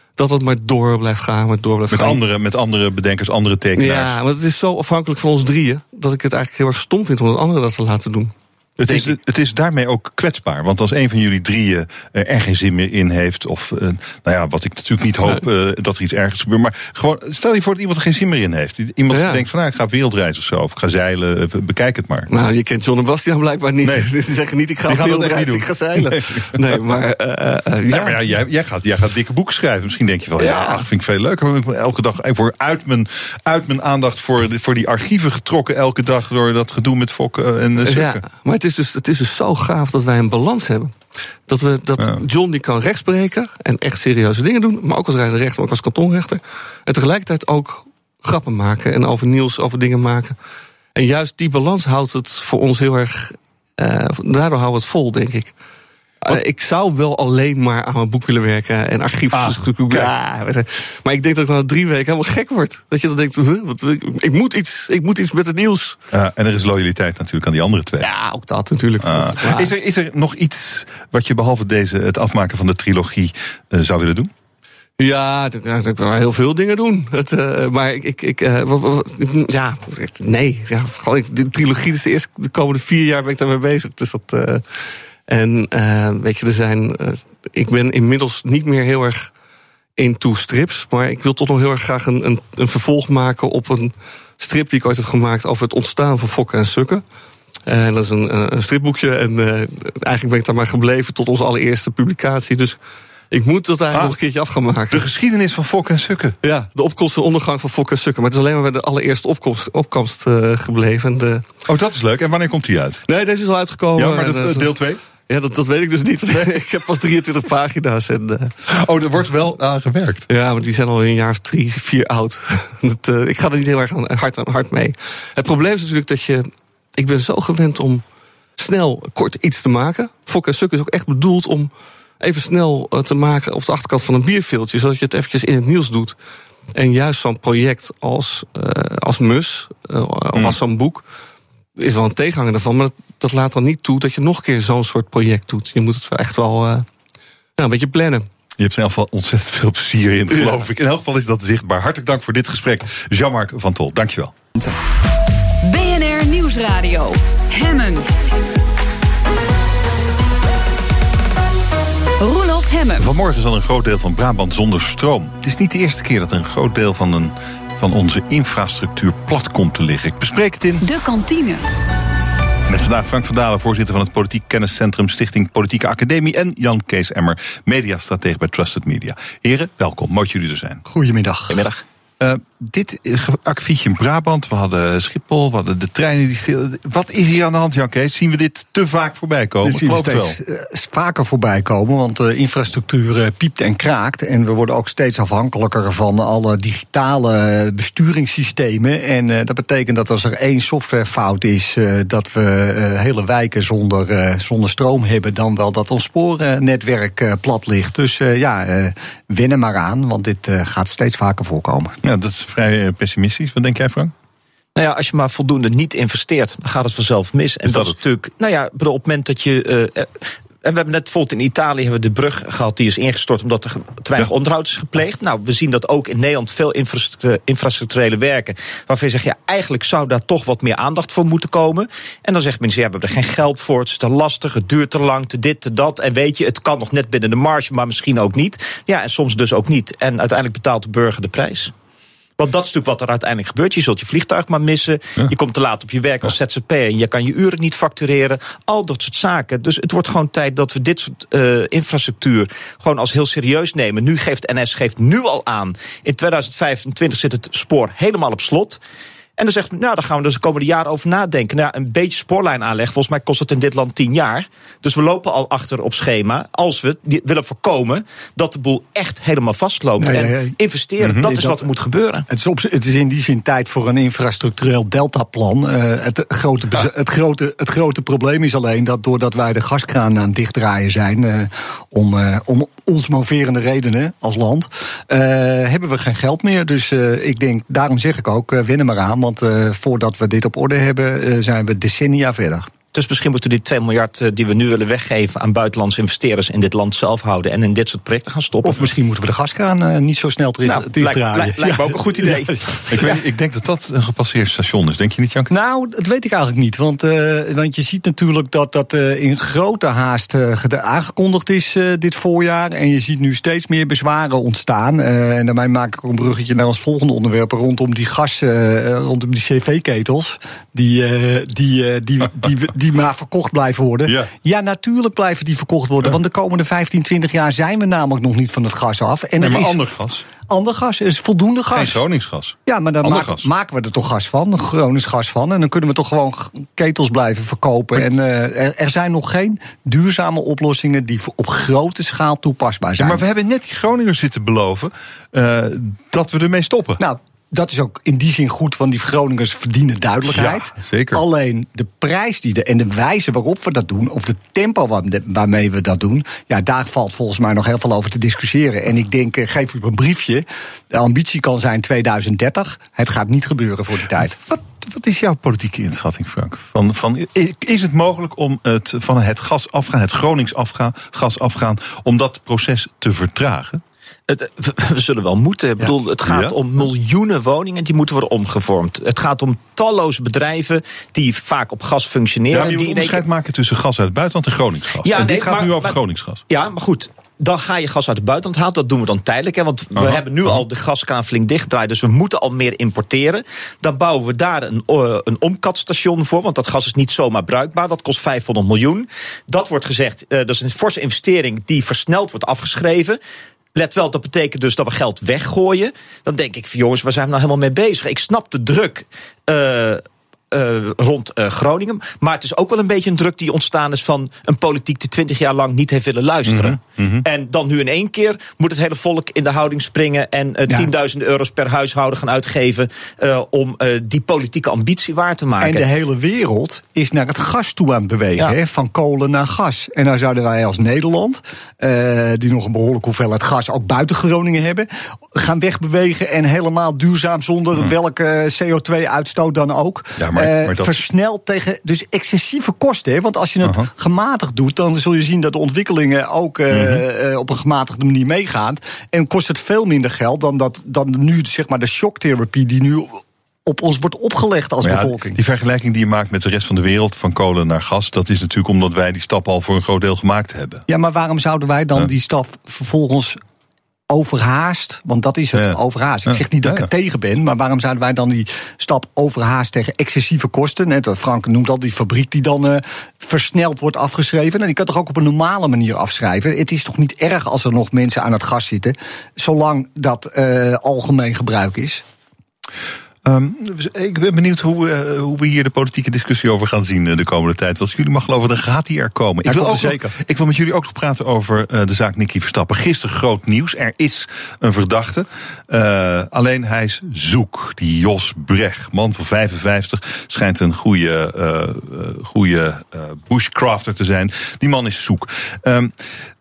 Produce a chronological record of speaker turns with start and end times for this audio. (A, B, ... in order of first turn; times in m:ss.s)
0:00.2-0:02.2 A
0:01.9-0:04.1 B
0:03.8-0:09.2 A
0:08.8-0:22.3 B
0:19.1-0:19.5 A
0:22.3-0:28.2 A
0:24.9-0:26.5 B
0:27.9-0:38.2 B
0:30.4-0:30.9 A
0:37.8-0:40.9 A
0:41.5-0:50.4 A
0:51.0-0:55.5 A
0:56.2-1:06.0 A
0:59.4-1:00.1 B
1:06.1-1:08.0 B
1:08.0-1:09.7 A
1:09.0-1:14.3 B
1:15.0-1:24.6 A
1:25.3-1:29.3 A
1:30.0-1:37.0 A
1:37.7-1:42.8 A
1:43.3-1:45.1 A
1:44.9-1:46.4 B
1:46.4-1:51.5 A
1:51.7-1:53.0 B
1:53.1-1:54.8 A
1:54.0-1:55.0 B
1:55.3-1:58.5 A
1:58.7-2:00.3 B
2:00.3-2:08.0 A
2:08.6-2:16.2 A
2:16.8-2:21.0 A
2:21.8-2:26.8 A
2:27.6-2:28.3 A
2:28.6-2:34.4 B
2:30.3-2:30.7 A
2:35.6-2:38.1 C
2:42.2-2:43.1 C
2:43.0-2:50.9 B
2:50.8-2:51.7 C
2:52.7-3:00.8 B
3:00.9-3:01.7 D
3:01.5-3:01.8 E
3:02.2-3:10.4 B
3:09.6-3:31.9 D
3:32.0-3:34.1 B
3:34.8-4:01.7 E
3:37.6-3:38.0 B
4:02.4-4:18.8 E
4:19.4-4:32.3 E
4:30.0-4:30.6 D
4:31.0-4:31.3 B
4:31.2-4:31.7 D
4:32.3-4:52.7 D
4:52.9-4:58.8 E
4:58.6-5:02.8 D
5:00.6-5:03.2 E
5:02.9-5:05.5 B
5:05.5-5:29.9 D
5:24.1-5:24.3 B
5:29.4-5:30.3 B
5:30.4-5:32.0 D
5:31.7-5:33.5 B
5:32.7-5:43.2 D
5:43.0-5:47.0 B
5:47.0-6:04.4 D
5:50.2-5:51.2 B
6:04.4-6:13.8 B
6:14.3-6:23.2 E
6:15.8-6:16.6 B
6:22.5-6:26.4 B
6:25.0-6:26.0 E
6:26.5-6:43.2 E
6:30.0-6:30.6 B
6:43.8-7:05.8 E
6:56.5-6:57.2 B
7:05.6-7:35.4 D
7:20.2-7:21.0 B
7:23.6-7:23.9 B
7:26.7-7:27.0 B
7:34.8-7:40.8 B
7:40.9-7:43.4 D
7:44.1-8:02.0 D
7:45.6-7:46.9 B
8:03.2-8:26.0 B
8:09.5-8:10.0 D